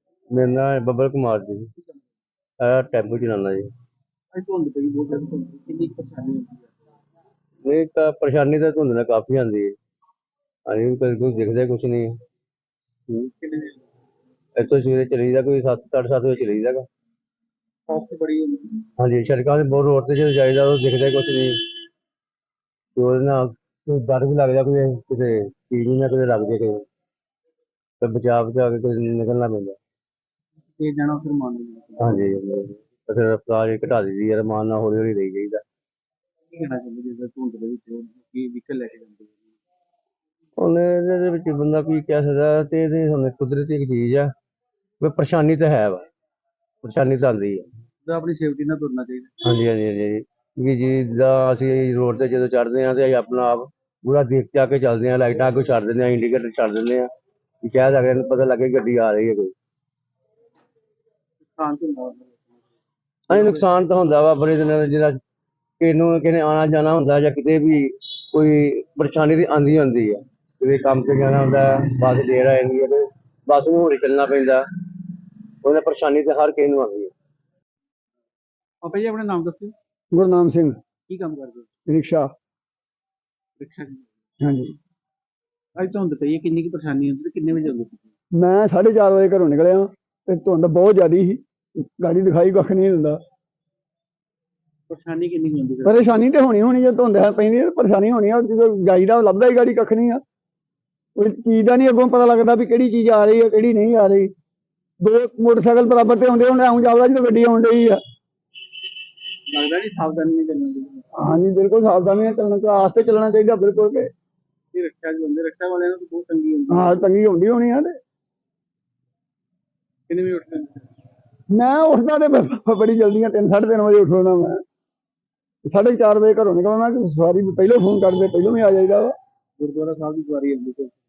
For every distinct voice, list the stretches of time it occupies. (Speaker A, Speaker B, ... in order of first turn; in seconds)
Speaker A: 0.3-1.7, 2.6-3.7, 7.6-9.7, 10.7-12.1, 14.6-16.8, 19.0-21.5, 22.9-26.8, 28.0-29.8, 32.0-35.6, 40.6-44.3, 45.0-46.0, 46.8-47.6, 49.4-57.1, 57.6-59.5, 63.3-65.2, 65.8-74.6, 75.6-77.1
Speaker B: 4.3-6.7, 13.4-13.8, 17.9-18.8, 30.8-32.2, 36.5-39.5, 48.0-49.3, 61.4-62.6, 63.3-63.6, 78.8-79.7, 81.1-81.7, 83.6-84.1, 85.8-88.1, 94.9-96.2, 109.5-111.1, 114.7-117.0, 120.1-120.9, 129.6-130.9
Speaker C: 80.1-80.8, 81.9-82.3, 84.4-84.7, 88.3-93.2, 95.8-100.2, 101.2-104.3, 105.0-108.0, 111.2-114.1, 116.7-117.9, 121.5-124.6, 125.7-129.1